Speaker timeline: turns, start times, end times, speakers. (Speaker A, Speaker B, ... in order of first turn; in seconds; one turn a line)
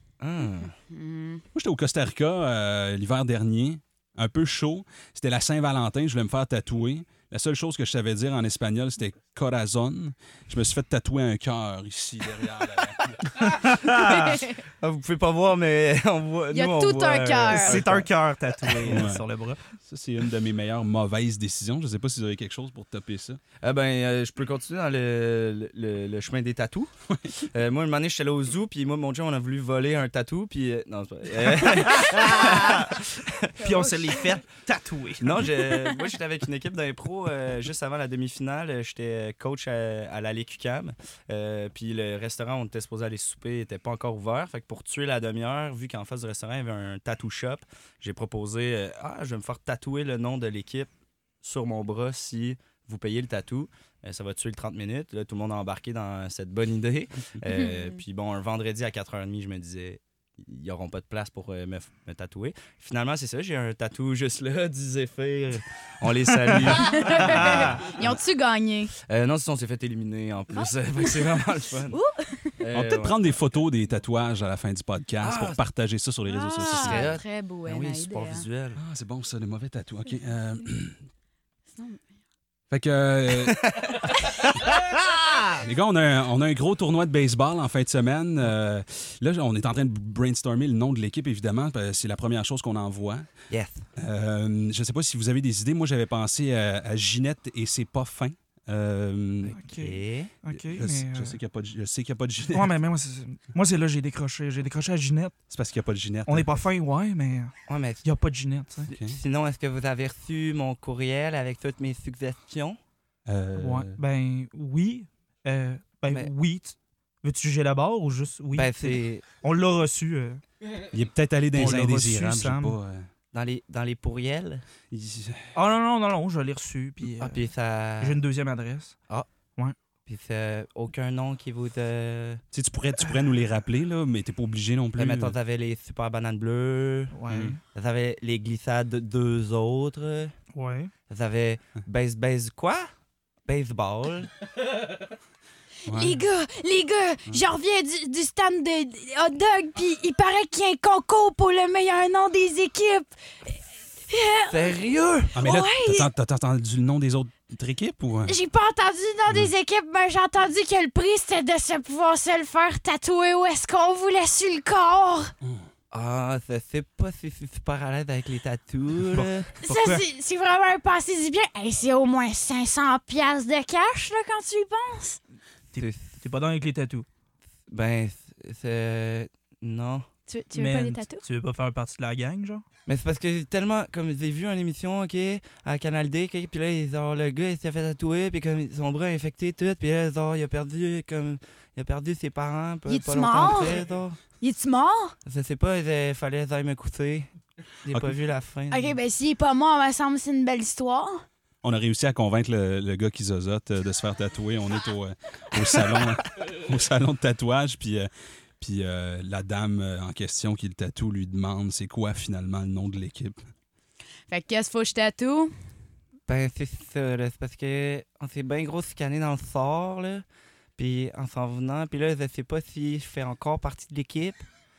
Speaker A: 0.2-0.7
Speaker B: 0.8-1.4
Speaker C: 1.5-13.2
Speaker D: 13.4-14.4
Speaker B: 14.0-14.6
Speaker A: 14.8-18.1
Speaker B: 16.5-17.9
Speaker D: 17.5-19.6
Speaker A: 18.7-19.1
Speaker C: 18.8-19.2
Speaker C: 19.8-23.4
Speaker A: 23.6-33.5
Speaker C: 27.1-27.4
Speaker D: 31.8-32.9
Speaker B: 32.1-32.4
Speaker D: 33.6-35.5
Speaker B: 33.6-34.3
Speaker A: 35.2-50.9
Speaker A: 51.4-68.2
Speaker B: 57.5-58.0
Speaker B: 66.7-68.9
Speaker D: 67.4-67.7
Speaker A: 69.0-72.0
Speaker B: 71.9-72.5
Speaker A: 72.6-73.4
Speaker C: 72.7-77.2
Speaker A: 75.2-75.6
Speaker B: 76.3-78.4
Speaker A: 76.6-78.8
Speaker C: 78.8-81.0
Speaker B: 81.7-82.1
Speaker C: 82.7-83.6
Speaker A: 83.5-84.0
Speaker A: 84.7-85.5
Speaker C: 85.6-93.3
Speaker A: 93.5-93.9
Speaker C: 94.0-99.5
Speaker A: 99.4-100.3
Speaker D: 99.5-101.4
Speaker C: 100.5-102.7
Speaker D: 102.5-105.4
Speaker C: 105.5-106.5
Speaker D: 106.3-108.9
Speaker A: 107.7-108.1
Speaker C: 108.9-109.2
Speaker A: 108.9-112.8
Speaker C: 113.3-114.0
Speaker D: 113.5-120.4
Speaker A: 118.5-119.2
Speaker C: 120.9-123.1
Speaker D: 121.5-122.8
Speaker A: 123.3-124.6
Speaker C: 124.9-125.5
Speaker D: 125.5-127.5
Speaker A: 127.2-128.2
Speaker D: 128.0-129.0
Speaker A: 130.1-132.4
Speaker C: 132.5-135.3
Speaker A: 135.0-140.3
Speaker D: 137.1-137.6
Speaker D: 140.5-140.9
Speaker A: 141.1-142.9
Speaker A: 143.4-144.3
Speaker B: 145.9-154.7
Speaker C: 145.9-146.2
Speaker A: 154.5-155.3
Speaker C: 155.3-158.3
Speaker B: 155.4-156.1
Speaker B: 158.2-165.3
Speaker C: 165.4-165.7
Speaker A: 165.9-169.7
Speaker D: 169.1-170.0
Speaker B: 169.6-175.2
Speaker D: 175.7-177.1
Speaker A: 175.8-176.2
Speaker A: 177.7-180.1
Speaker B: 180.3-181.2
Speaker D: 180.5-182.6
Speaker A: 182.8-194.2
Speaker B: 192.9-193.8
Speaker B: 194.4-195.1
Speaker A: 195.2-197.3
Speaker A: 197.8-198.9
Speaker C: 197.9-198.2
Speaker B: 198.7-201.2
Speaker C: 201.6-213.4
Speaker B: 214.3-215.5
Speaker A: 216.3-220.2
Speaker A: 220.8-224.4